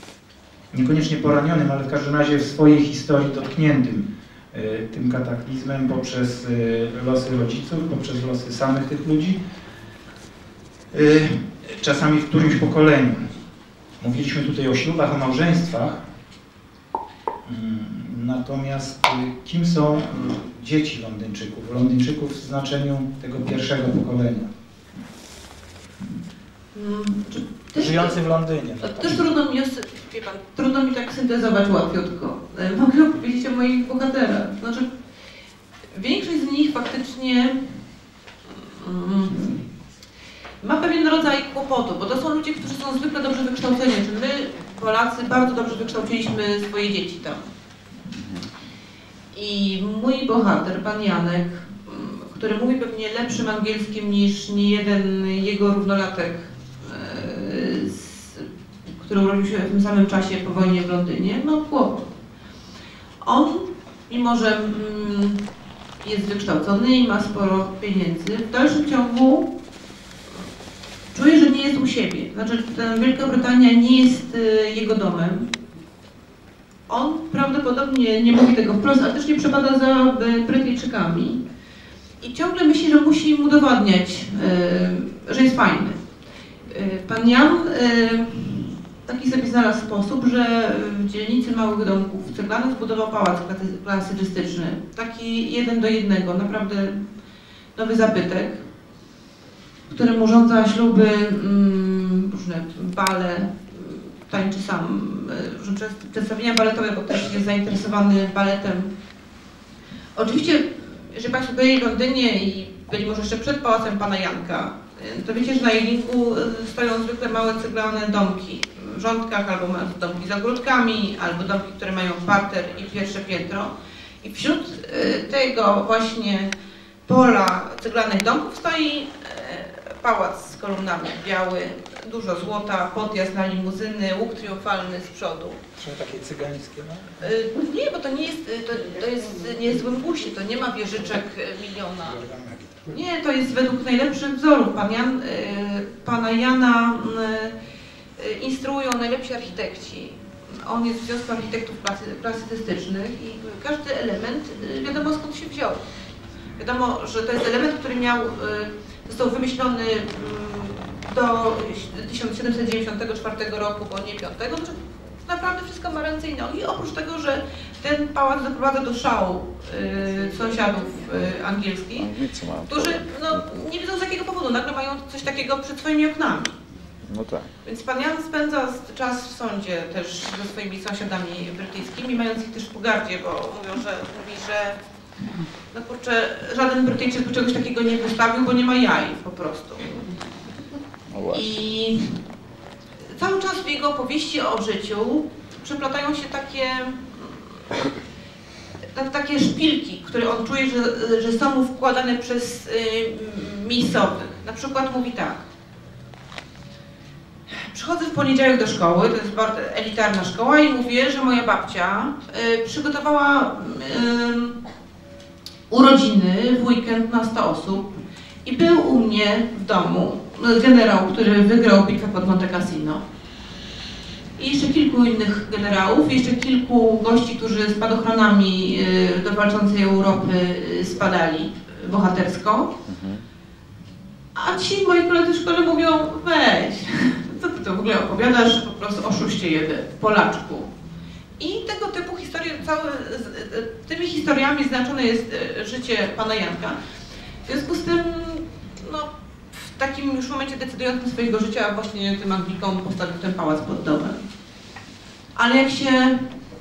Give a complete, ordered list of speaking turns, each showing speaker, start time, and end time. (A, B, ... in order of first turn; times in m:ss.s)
0:00.7-0:09.4 A
0:10.9-0:13.3 A
0:14.0-0:16.0 A
0:17.5-0:24.5 A
0:26.7-0:28.2 B
0:27.8-0:29.3 A
0:28.8-0:34.9 B
0:35.9-0:37.7 B
0:38.5-0:39.7 B
0:40.6-0:47.5 B
0:49.3-0:58.5 B
0:59.0-1:02.1 B
1:03.2-1:05.4 B
1:06.0-1:09.5 B
1:11.1-1:15.6 B
1:16.9-1:21.4 B
1:22.2-1:26.0 B
1:26.7-1:37.0 B
1:37.8-1:38.6 B
1:39.9-1:48.9 B
1:50.2-2:03.7 B
2:04.2-2:06.5 B
2:07.1-2:15.6 B
2:15.8-2:17.1 A
2:17.2-2:22.2 B
2:22.0-2:22.9 A
2:22.9-2:27.6 B
2:28.2-2:35.8 B
2:36.6-2:52.1 B
2:52.0-2:53.4 C
2:52.7-2:56.6 B
2:57.1-2:57.5 C
2:57.6-3:04.8 B
3:05.7-3:10.1 B
3:11.1-3:11.5 C
3:11.3-3:12.1 B
3:13.1-3:17.8 B
3:18.9-3:25.4 B
3:27.7-3:34.6 B
3:35.7-3:43.0 B
3:44.4-3:52.8 B
3:52.9-3:53.2 C
3:54.4-4:00.7 B
4:01.4-4:06.8 B
4:07.5-4:14.2 B
4:15.4-4:16.3 B